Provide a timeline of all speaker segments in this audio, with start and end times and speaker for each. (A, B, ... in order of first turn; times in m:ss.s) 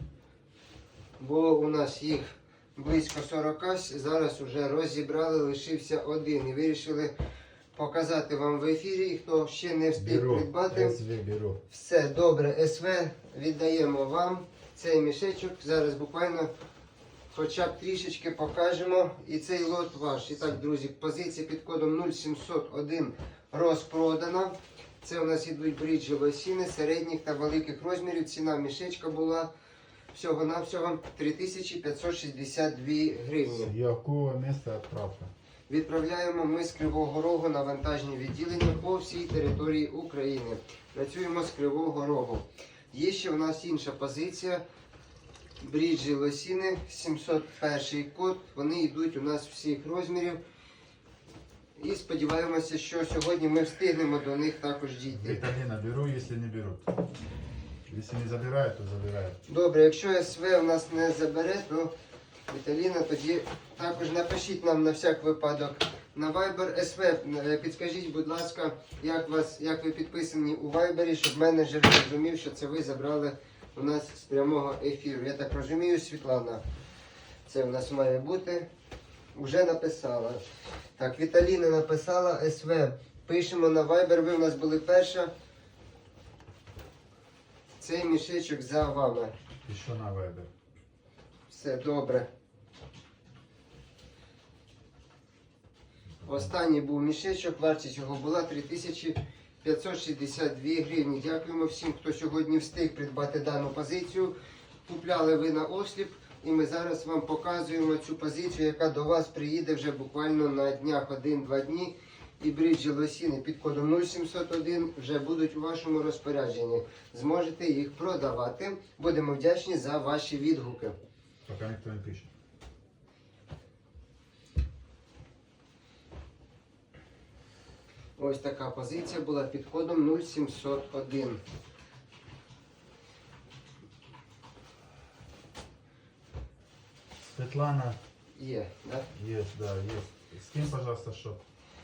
0:01.2-0:07.1 A
0:07.7-0:11.0 A
0:10.0-0:11.6 B
0:11.7-0:16.5 A
0:17.3-0:29.5 A
0:30.1-0:33.7 A
0:33.5-0:35.3 B
0:35.7-0:44.6 A
0:45.6-0:50.4 A
0:51.8-0:55.4 A
0:55.1-0:56.9 B
0:57.9-0:59.4 B
0:59.5-1:01.9 A
1:02.5-1:16.6 A
1:17.5-1:18.7 A
1:19.3-1:20.4 A
1:21.0-1:25.3 A
1:27.8-1:29.3 A
1:29.6-1:30.5 B
1:31.5-1:32.3 A
1:36.2-1:44.3 A
1:44.8-2:01.0 A
2:01.5-2:02.3 B
2:08.2-2:11.4 A
2:17.2-2:18.0 B
2:18.3-2:19.1 A
2:19.1-2:21.4 B